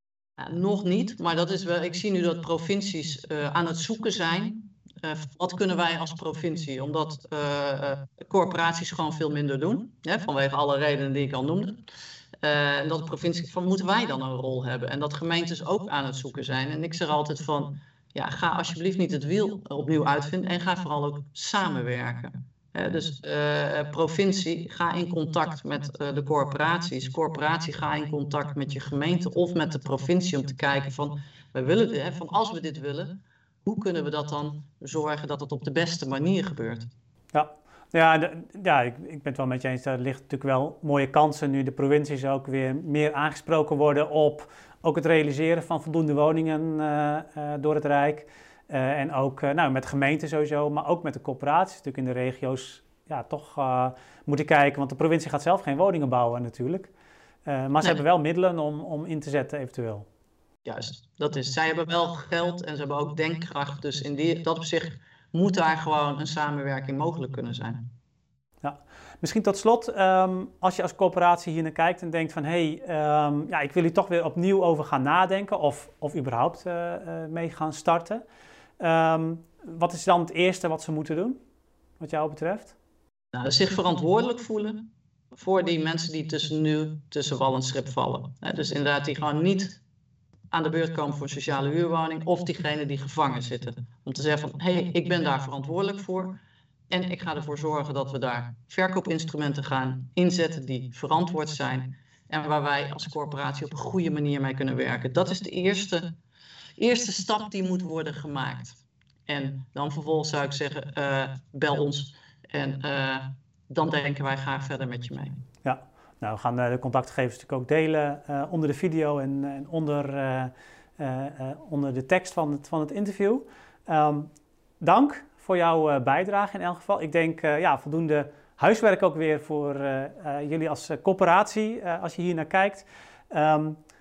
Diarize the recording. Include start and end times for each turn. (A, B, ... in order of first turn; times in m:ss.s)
0:00.4-0:11.8 A
0:12.4-0:36.9 A
0:37.3-0:56.9 B
0:57.4-1:00.0 B
1:00.6-1:07.8 A
1:08.6-1:18.2 B
1:18.8-1:21.4 B
1:22.0-1:22.8 B
1:23.3-1:29.8 A
1:30.5-1:36.4 A
1:36.9-1:46.1 A
1:46.8-1:55.4 A
1:55.6-2:04.3 B
2:04.8-2:13.8 B